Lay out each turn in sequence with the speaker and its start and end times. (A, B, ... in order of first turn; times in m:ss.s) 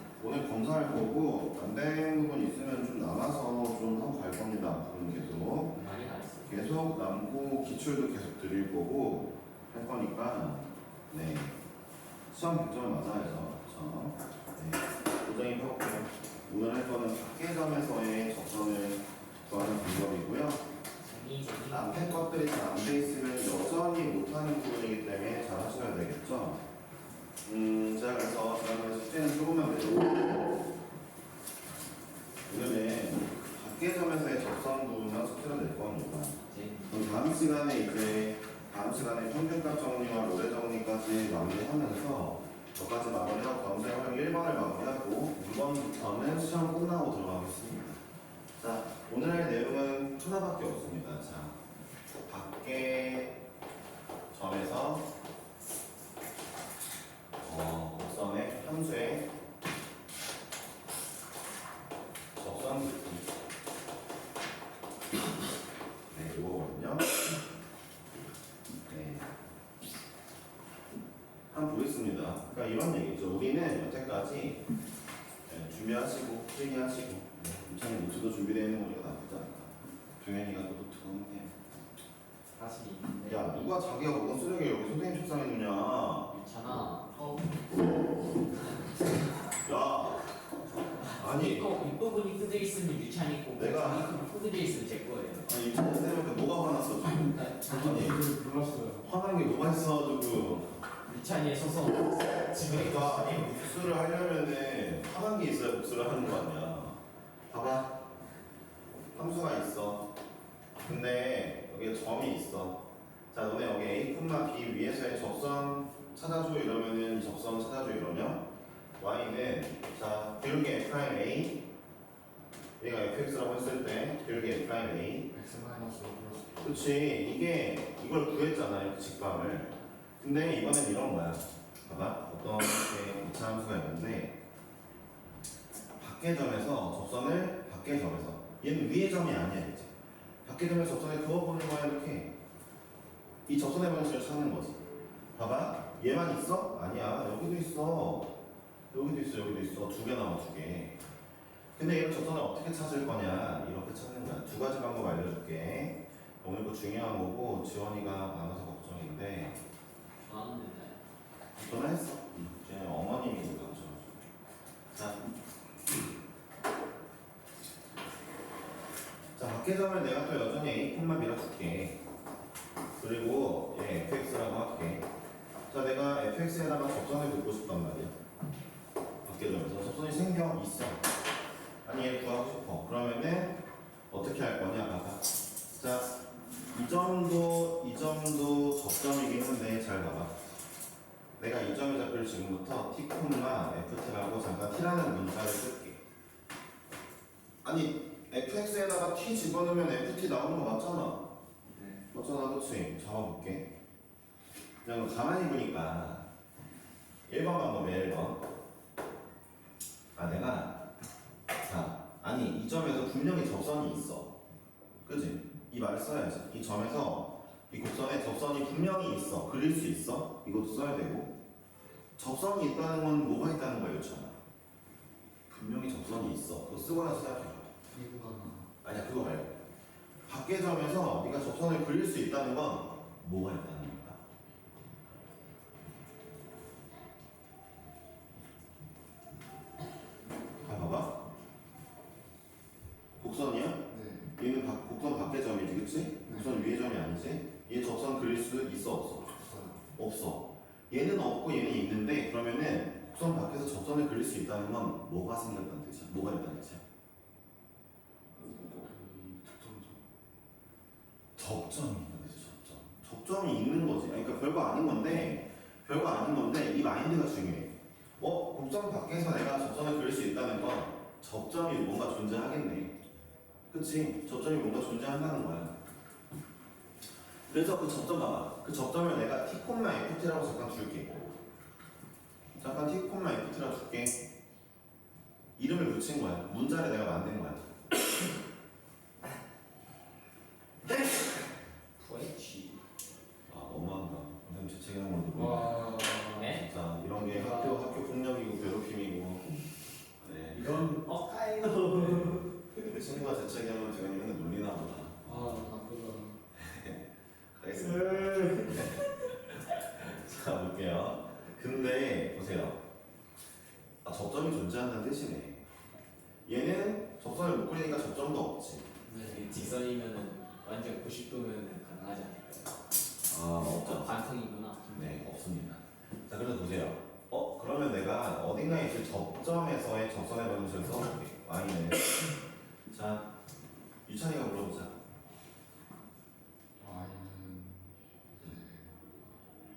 0:00.2-0:05.8 A
0:05.7-0:07.0 B
0:06.5-0:11.6 A
0:12.3-0:20.6 A
0:21.0-0:22.4 B
0:21.7-0:26.6 A
0:27.4-0:30.6 A
0:32.5-0:36.4 A
0:36.5-0:37.1 B
0:36.9-0:48.0 A
0:48.6-0:51.6 A
0:52.2-0:53.4 A
0:54.3-0:55.1 A
0:57.4-0:59.3 A
1:02.4-1:03.3 A
1:06.1-1:07.1 A
1:08.8-1:09.3 A
1:11.5-1:14.6 A
1:15.5-1:21.5 A
1:22.5-1:23.7 B
1:23.3-1:26.3 A
1:26.3-1:27.7 B
1:28.8-1:29.2 B
1:29.6-1:30.4 A
1:31.0-1:35.5 B
1:31.2-1:31.7 A
1:33.6-1:34.1 A
1:35.4-1:38.2 A
1:37.2-1:37.6 B
1:37.6-1:39.1 C
1:39.0-1:40.7 A
1:41.0-1:43.6 B
1:42.5-1:47.0 A
1:47.5-1:48.0 A
1:49.1-1:50.1 A
1:50.8-1:58.5 A
1:59.0-2:01.6 A
2:02.8-2:05.3 A
2:05.3-2:06.9 C
2:06.6-2:14.4 A
2:16.0-2:19.9 A
2:20.4-2:22.3 A
2:23.4-2:24.8 A
2:25.3-2:28.3 A
2:28.9-2:31.0 A
2:31.8-2:39.6 A
2:40.2-2:41.0 B
2:41.6-2:44.2 A
2:44.9-2:45.2 A
2:49.4-2:52.0 A
2:53.0-2:55.1 A
2:55.7-2:58.1 A
2:59.2-3:01.1 A
3:01.8-3:10.4 A
3:11.4-3:16.0 A
3:17.6-3:21.3 A
3:21.7-3:22.0 B
3:22.1-3:23.7 A
3:24.8-3:26.2 A
3:27.3-3:28.4 A
3:30.1-3:30.8 A
3:31.6-3:34.3 A
3:35.0-3:41.3 A
3:42.2-3:44.4 A
3:45.5-3:47.7 A
3:47.9-3:48.7 C
3:48.8-3:49.5 A
3:50.2-3:54.2 A
4:00.6-4:01.2 A
4:03.2-4:09.3 A
4:03.9-4:04.3 C
4:06.2-4:06.6 C
4:09.3-4:09.8 C
4:10.0-4:16.8 A
4:18.7-4:20.0 C
4:21.4-4:33.0 A
4:33.7-4:35.7 A
4:37.5-4:41.4 A
4:42.6-4:44.2 A
4:45.6-4:47.7 A
4:50.9-4:51.2 B
4:52.0-4:52.8 B
4:53.5-4:56.0 A
4:55.3-4:56.5 C
4:56.4-4:56.7 B
4:56.5-4:59.4 A
4:57.3-4:57.8 C
5:00.2-5:00.9 A
5:00.6-5:00.9 C
5:00.7-5:02.4 B
5:01.9-5:02.4 C
5:02.8-5:05.6 A
5:05.2-5:06.4 C
5:06.6-5:07.0 A
5:07.5-5:12.8 A
5:08.1-5:09.0 B
5:14.0-5:15.6 A
5:16.4-5:18.9 A
5:19.0-5:19.5 C
5:19.2-5:22.8 B
5:23.3-5:24.1 A
5:23.6-5:25.3 B
5:24.9-5:32.3 A
5:32.9-5:33.3 A
5:34.0-5:35.0 A
5:36.8-5:38.9 C